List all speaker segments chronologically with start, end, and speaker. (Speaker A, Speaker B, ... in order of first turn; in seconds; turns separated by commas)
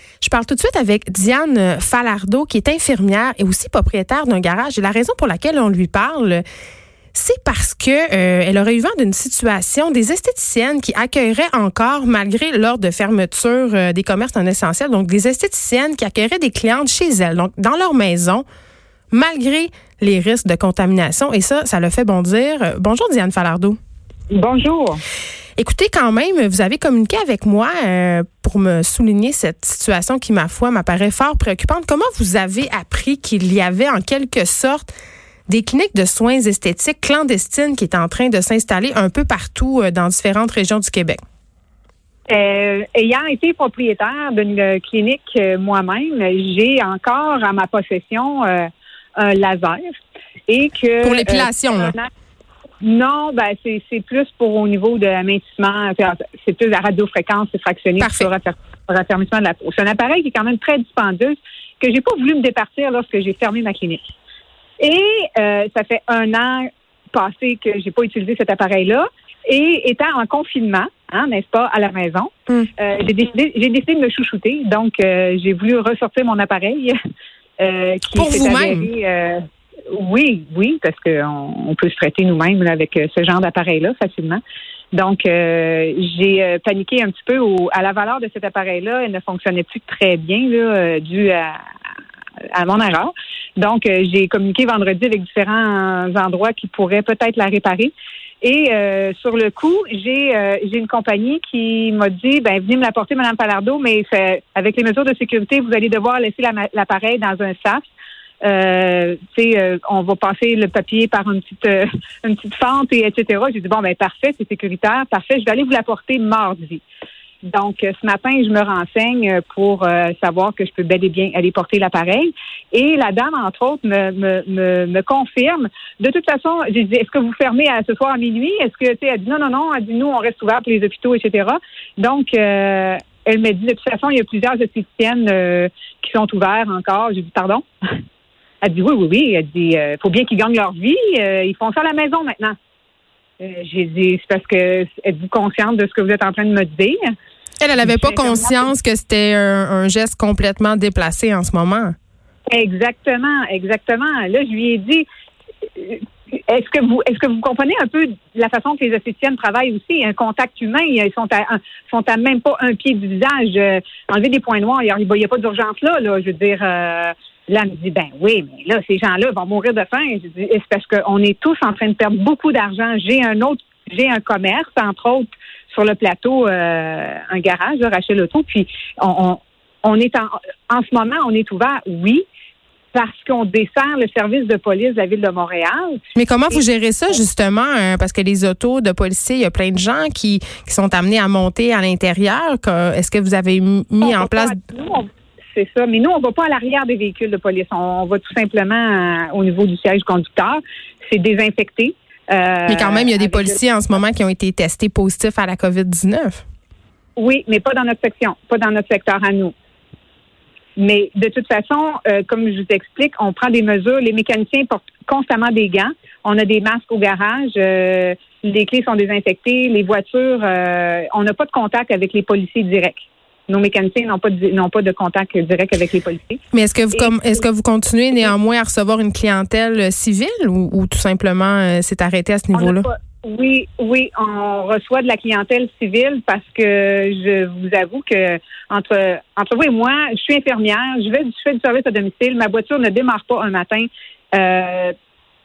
Speaker A: 0.2-6.4, Speaker A: 7.1-18.4, Speaker A: 19.1-23.8, Speaker B: 24.3-25.0, Speaker A: 25.6-34.9, Speaker A: 35.5-41.2, Speaker B: 42.3-52.1, Speaker A: 51.0-51.9, Speaker B: 52.8-64.0, Speaker A: 58.0-58.3, Speaker B: 64.8-76.9, Speaker B: 77.6-84.4, Speaker A: 78.1-78.9, Speaker B: 84.9-91.6, Speaker B: 92.5-107.8, Speaker B: 108.4-116.8, Speaker B: 117.4-137.7, Speaker B: 138.6-142.5, Speaker B: 143.4-147.0, Speaker A: 147.6-151.9, Speaker B: 147.8-148.7, Speaker B: 152.5-155.0, Speaker B: 155.8-182.2, Speaker B: 182.9-186.6, Speaker A: 186.1-194.6, Speaker B: 194.0-203.6, Speaker A: 202.7-206.4, Speaker B: 207.2-209.5, Speaker B: 210.8-226.4, Speaker A: 226.5-232.9, Speaker B: 226.9-227.2, Speaker B: 232.5-244.9